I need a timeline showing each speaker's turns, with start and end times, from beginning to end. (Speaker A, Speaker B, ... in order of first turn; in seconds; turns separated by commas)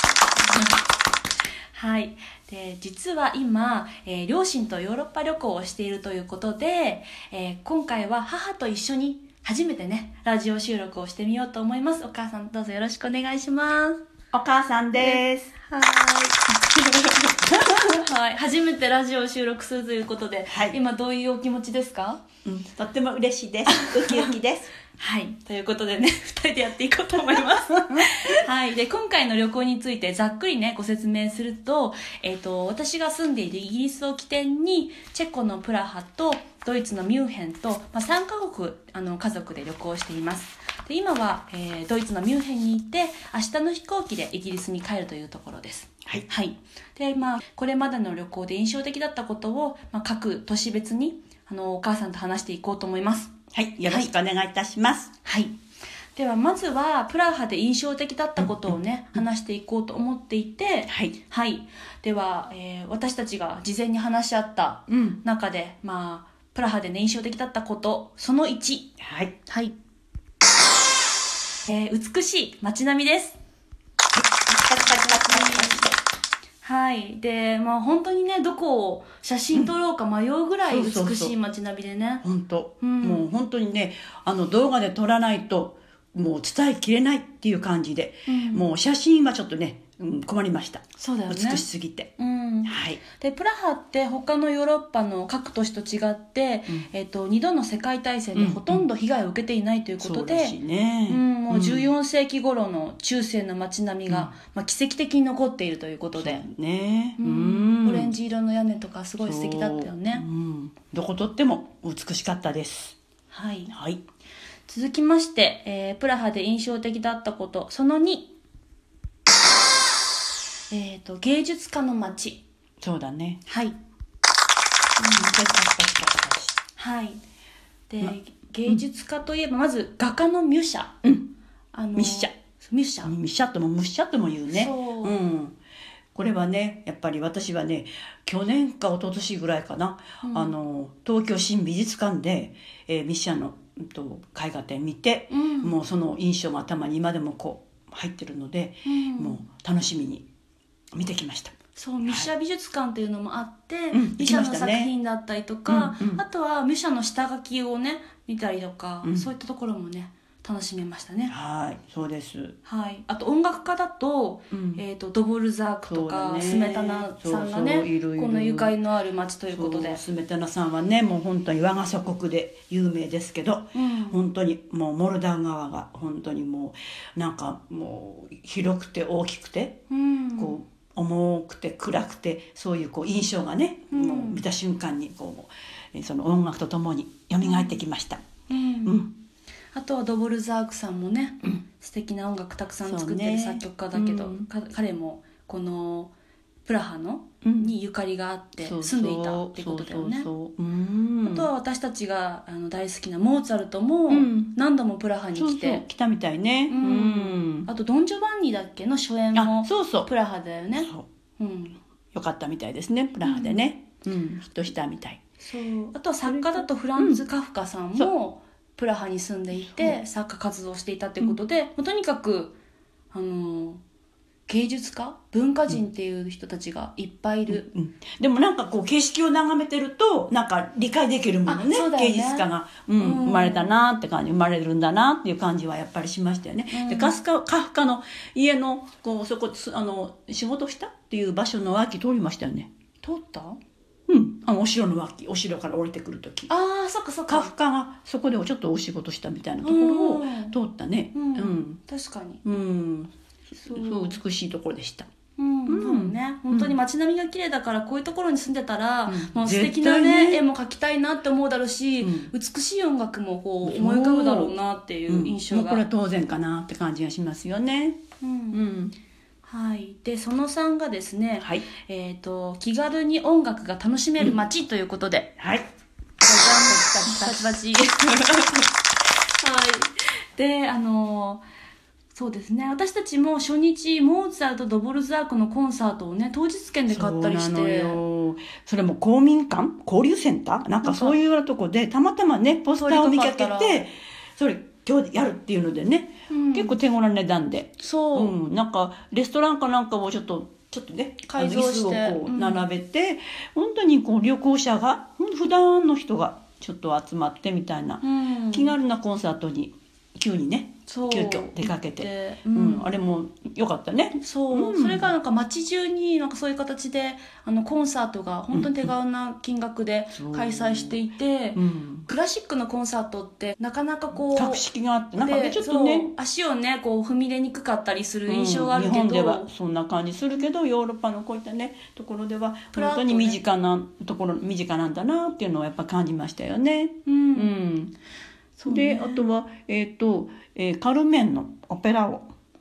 Speaker A: 0.4-0.8, Speaker A: 1.7-14.0, Speaker B: 14.3-15.5, Speaker A: 15.0-22.2, Speaker B: 17.5-17.9, Speaker B: 20.5-20.8, Speaker B: 22.4-24.7, Speaker A: 23.7-24.3, Speaker A: 24.9-53.3, Speaker B: 53.5-55.1, Speaker A: 55.2-55.5, Speaker A: 56.1-69.0, Speaker B: 60.9-61.1, Speaker B: 64.9-65.2, Speaker B: 69.0-69.3, Speaker A: 69.5-69.7, Speaker A: 71.6-73.4, Speaker B: 74.5-75.9, Speaker A: 74.8-75.8, Speaker A: 76.6-82.2, Speaker B: 80.7-81.3, Speaker B: 82.2-92.1, Speaker A: 82.8-83.2, Speaker A: 88.3-88.7, Speaker A: 91.0-91.7, Speaker A: 92.2-100.5, Speaker B: 92.6-93.0, Speaker B: 98.3-98.8, Speaker B: 100.0-101.9, Speaker A: 101.1-106.4, Speaker B: 104.1-104.3, Speaker B: 106.1-108.1, Speaker A: 107.2-110.2, Speaker B: 109.2-113.0, Speaker A: 113.3-113.7, Speaker B: 113.7-114.0, Speaker A: 114.7-118.3, Speaker A: 120.7-122.4, Speaker B: 122.8-123.4, Speaker A: 123.5-123.8, Speaker A: 125.0-125.3, Speaker B: 125.1-126.6, Speaker A: 126.8-127.2, Speaker A: 127.9-130.9, Speaker B: 131.0-131.3, Speaker A: 131.7-133.1, Speaker B: 131.9-132.3, Speaker B: 133.0-135.6, Speaker A: 134.5-135.2, Speaker B: 136.1-150.2, Speaker A: 140.2-140.5, Speaker A: 145.3-145.7, Speaker A: 148.8-149.4, Speaker B: 150.9-152.3, Speaker A: 151.8-161.3, Speaker B: 153.9-154.9, Speaker B: 155.7-156.2, Speaker B: 159.0-159.3, Speaker B: 161.3-162.6, Speaker A: 162.6-170.0, Speaker B: 164.5-164.8, Speaker B: 165.9-168.8, Speaker B: 169.5-179.8, Speaker A: 173.7-174.2, Speaker A: 179.9-180.6, Speaker B: 180.4-188.2, Speaker A: 183.9-184.4, Speaker A: 187.4-187.8, Speaker A: 188.5-189.0, Speaker B: 188.8-189.1, Speaker A: 189.7-196.1, Speaker B: 192.8-194.5, Speaker A: 196.6-200.3, Speaker B: 197.4-197.7, Speaker B: 198.6-201.5, Speaker A: 201.2-205.8, Speaker B: 204.1-204.5, Speaker B: 205.3-207.7, Speaker A: 206.7-211.8, Speaker B: 209.3-210.1, Speaker B: 210.7-211.0, Speaker B: 212.1-215.2, Speaker A: 213.2-213.6, Speaker A: 215.4-222.6, Speaker B: 216.2-217.2, Speaker B: 219.7-220.0, Speaker A: 223.1-223.8, Speaker A: 224.5-227.7, Speaker B: 227.5-242.7, Speaker A: 231.5-232.5, Speaker A: 233.0-233.7, Speaker A: 236.7-237.2, Speaker A: 243.0-243.6, Speaker B: 244.1-246.5, Speaker A: 246.5-247.5, Speaker B: 247.3-251.8, Speaker A: 249.6-250.5, Speaker A: 251.1-252.4, Speaker B: 252.4-255.1, Speaker A: 253.6-254.2, Speaker A: 255.3-265.8, Speaker B: 255.7-256.8, Speaker B: 259.1-260.4, Speaker B: 262.0-262.3, Speaker B: 263.6-264.5, Speaker B: 265.1-268.0, Speaker A: 268.2-268.6, Speaker B: 268.5-268.9, Speaker A: 269.4-275.3, Speaker B: 271.4-271.6, Speaker B: 275.4-275.7, Speaker A: 276.2-278.7, Speaker A: 279.4-281.4, Speaker A: 282.1-288.0, Speaker B: 286.9-315.1, Speaker A: 290.8-291.1, Speaker A: 292.8-293.8, Speaker A: 296.3-296.8, Speaker A: 297.8-298.3, Speaker A: 301.2-302.7, Speaker A: 308.0-308.7, Speaker A: 310.9-312.9, Speaker A: 314.2-324.6, Speaker B: 318.5-318.9, Speaker B: 320.1-321.0, Speaker B: 321.5-322.1, Speaker B: 324.3-326.1, Speaker A: 325.2-329.5, Speaker B: 328.3-337.9, Speaker A: 332.7-333.4, Speaker A: 337.1-337.5, Speaker A: 338.6-339.2, Speaker B: 338.6-342.3